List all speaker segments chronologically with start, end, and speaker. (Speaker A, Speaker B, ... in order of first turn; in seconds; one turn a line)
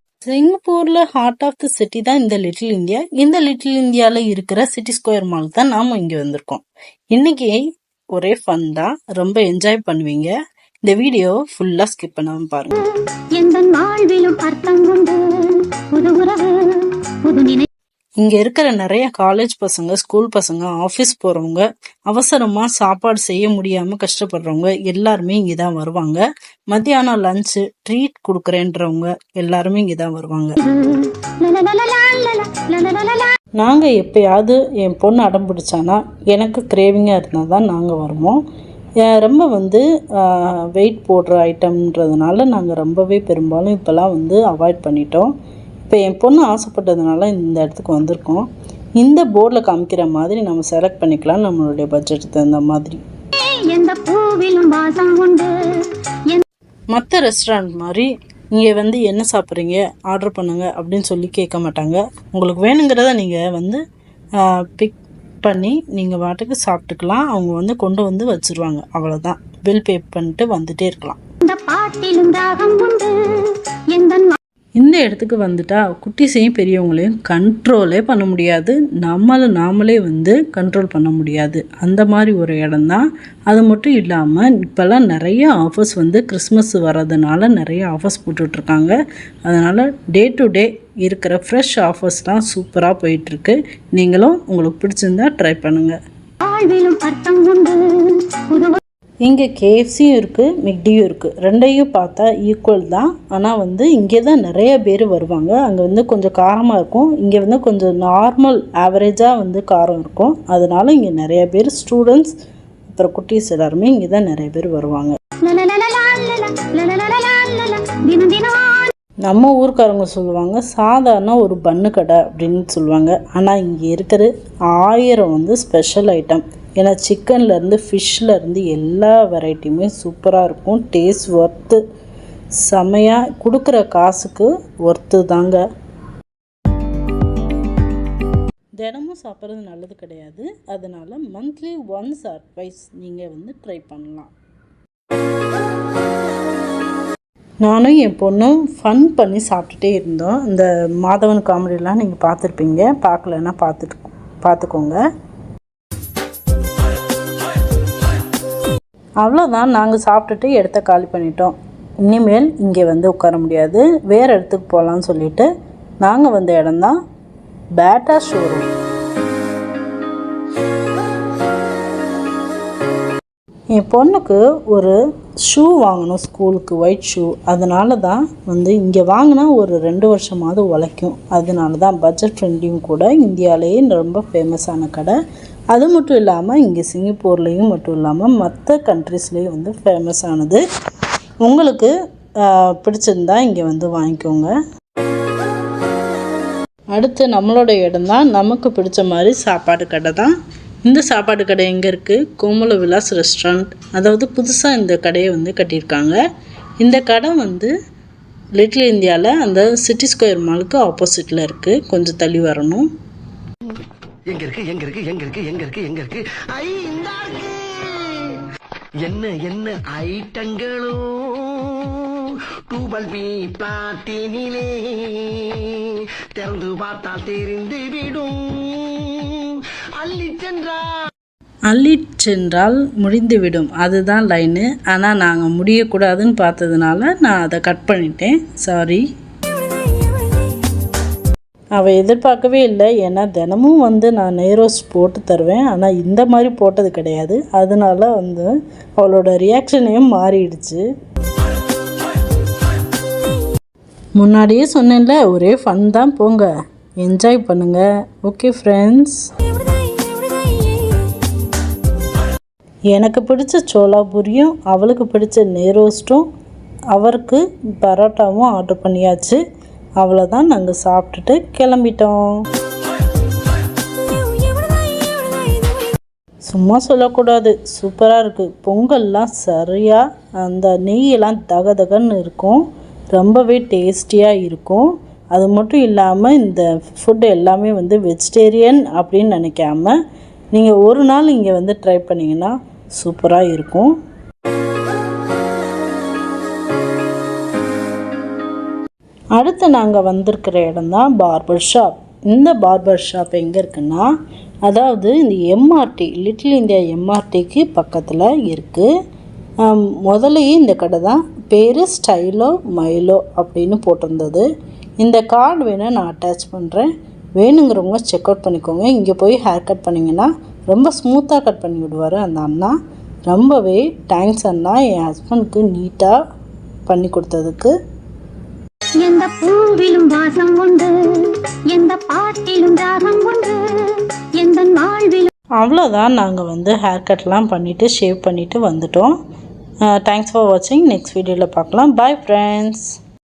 Speaker A: 0.2-7.6
Speaker A: 8.1-10.3
Speaker A: 10.8-12.7
Speaker B: 12.8-17.7
Speaker A: 18.2-30.6
Speaker B: 30.6-33.3
Speaker A: 33.6-38.4
Speaker A: 39.0-45.3
Speaker A: 45.9-48.5
Speaker A: 49.0-53.0
Speaker B: 53.3-56.4
Speaker A: 56.9-63.8
Speaker A: 64.4-71.2
Speaker B: 71.4-74.4
Speaker A: 74.8-96.0
Speaker B: 96.4-98.8
Speaker A: 99.2-112.3
Speaker A: 112.9-115.2
Speaker B: 115.4-118.9
Speaker A: 119.2-131.8
Speaker A: 132.6-135.6
Speaker A: 138.8-144.3
Speaker A: 147.6-155.0
Speaker A: 159.2-165.5
Speaker A: 166.0-167.0
Speaker A: 167.8-168.7
Speaker A: 173.7-185.2
Speaker A: 185.7-190.6
Speaker A: 191.4-191.9
Speaker A: 192.4-194.5
Speaker A: 196.9-200.3
Speaker A: 200.8-206.2
Speaker A: 206.8-207.7
Speaker A: 208.6-212.9
Speaker C: 214.3-218.4
Speaker C: 219.0-231.1
Speaker A: 231.7-239.0
Speaker B: 239.8-240.4
Speaker A: 241.7-250.8
Speaker A: 254.2-256.5
Speaker A: 257.0-259.5
Speaker B: 259.6-261.2
Speaker A: 262.9-266.2
Speaker A: 266.9-269.4
Speaker A: 270.0-272.3
Speaker B: 274.1-275.9
Speaker A: 276.4-289.9
Speaker A: 290.5-293.9
Speaker A: 299.4-304.1
Speaker A: 304.6-308.9
Speaker A: 309.6-314.4
Speaker A: 315.0-322.7
Speaker A: 323.3-326.2
Speaker A: 326.9-327.7
Speaker B: 329.0-335.3
Speaker A: 335.6-339.1
Speaker A: 339.9-342.9